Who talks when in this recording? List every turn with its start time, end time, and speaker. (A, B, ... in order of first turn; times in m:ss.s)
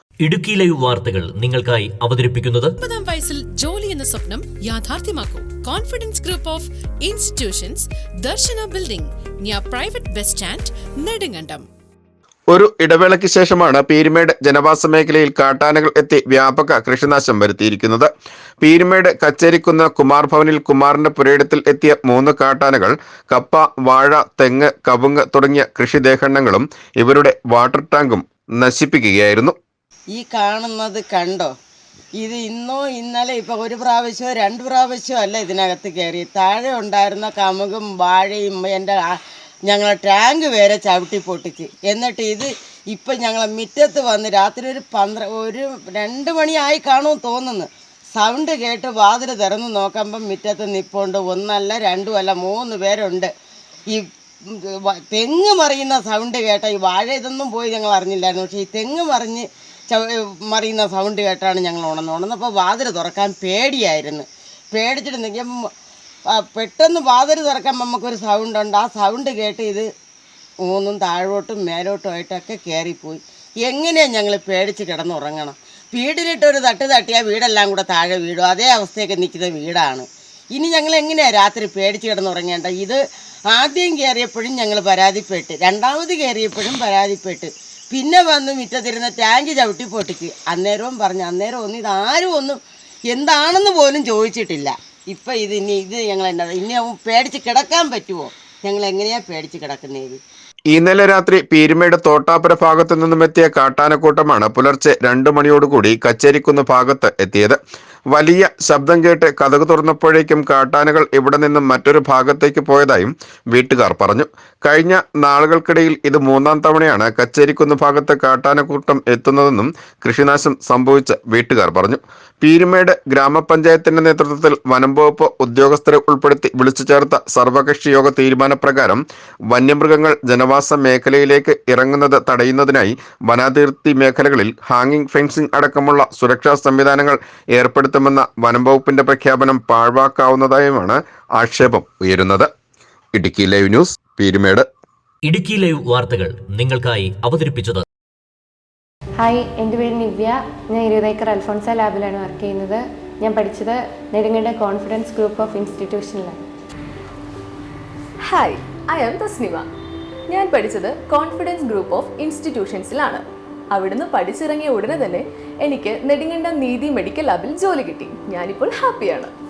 0:00.2-0:02.7 A
0:02.8-0:11.6 B
0:12.5-0:18.1 C
0:18.6-0:29.6 C
0:30.2-0:31.5 D
0:32.2-0:39.0 D
0:39.7-0:53.3 D
0:53.9-1:05.6 D
1:06.4-1:09.9 D
1:10.6-1:23.0 D
1:23.5-1:40.2 D
1:40.7-1:47.6 C
1:48.1-2:22.5 C
2:23.2-2:24.7 C
2:25.3-2:27.8 A
2:29.2-2:36.4 E
2:38.2-2:39.7 F
2:40.3-2:49.3 F